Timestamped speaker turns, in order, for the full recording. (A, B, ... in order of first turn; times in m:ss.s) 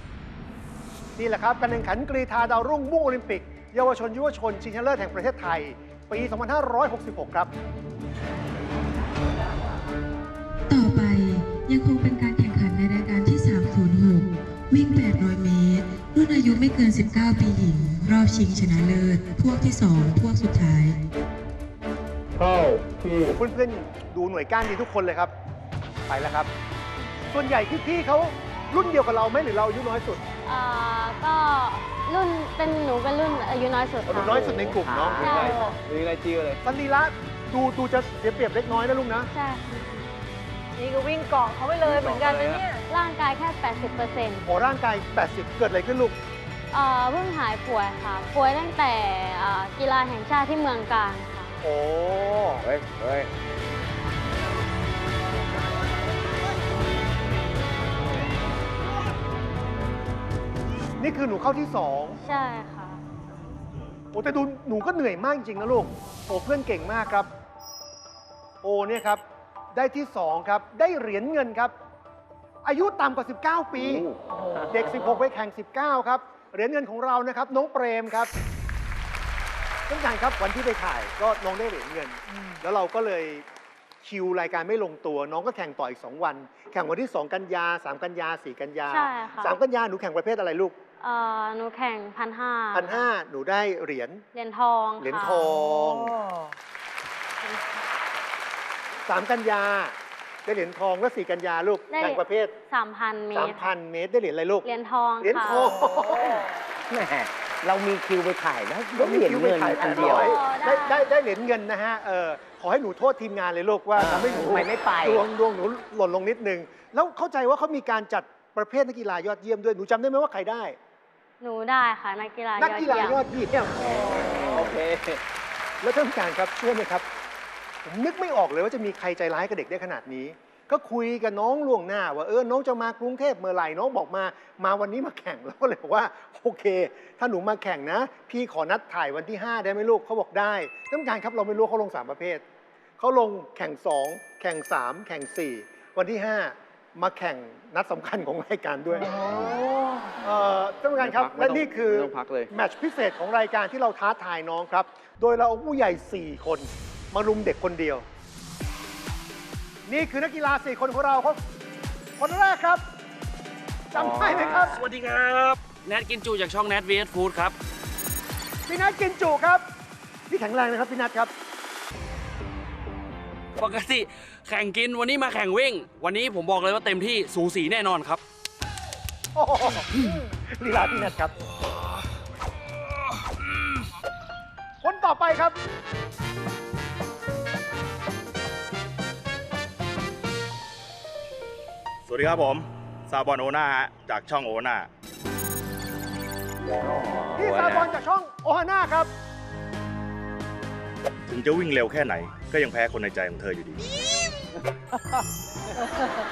0:01.2-0:07.5 A
0:10.7-0:21.0 B
0:23.3-0:25.3 A
0:26.1-0:26.5 A
0:27.3-0:30.2 A
0:30.4-0:35.6 C
0:34.0-0:35.4 A
0:34.8-0:35.4 D
0:35.0-0:36.6 E
0:35.5-0:35.8 F
0:36.6-0:39.3 A
0:39.3-0:39.7 C
0:40.7-0:42.8 F
0:41.8-0:42.6 E
0:42.9-0:44.5 C
0:44.4-0:46.2 A
0:46.7-0:51.6 C
0:51.6-0:52.6 A
0:52.6-0:53.3 D
1:01.0-1:02.2 A
1:02.2-1:03.0 C
1:04.1-1:07.3 A
1:08.6-1:09.2 A
1:09.7-1:11.7 A
1:12.6-1:14.1 A
1:13.8-1:14.7 D
1:14.3-1:15.0 F
1:14.7-1:18.3 A
1:19.9-1:23.4 A
1:22.3-1:22.6 F
1:24.0-1:30.8 A
1:28.9-1:29.6 C
1:31.0-1:33.1 C
1:32.7-1:34.2 A
1:34.3-1:35.5 C
1:35.0-1:36.2 A
1:35.6-1:36.5 F
1:37.4-1:37.8 C
1:39.0-1:42.5 A
1:41.9-1:43.7 C
1:43.3-1:44.6 A
1:44.6-1:45.8 C
1:45.2-1:46.4 A
1:46.9-1:50.3 D
1:49.0-2:00.8 A
1:49.7-1:51.0 C
1:54.0-1:55.2 D
2:01.4-2:03.8 C
2:02.6-2:03.6 A
2:04.0-2:05.0 D
2:05.8-2:07.0 A
2:07.8-2:22.4 A
2:23.0-2:29.1 A
2:29.0-2:30.2 F
2:30.2-2:38.0 A
2:31.0-2:32.5 E
2:39.9-2:41.4 A
2:42.2-2:42.8 A
2:43.9-2:44.8 A
2:44.7-2:47.5 G
2:48.7-2:49.6 A
2:50.3-2:51.3 A
2:53.6-2:58.2 G
2:59.3-2:59.9 A
3:00.5-3:01.4 A
3:04.8-3:05.6 A
3:12.1-3:14.9 H
3:16.8-3:17.9 D
3:17.4-3:19.1 A
3:21.3-3:23.8 H
3:25.8-3:26.2 F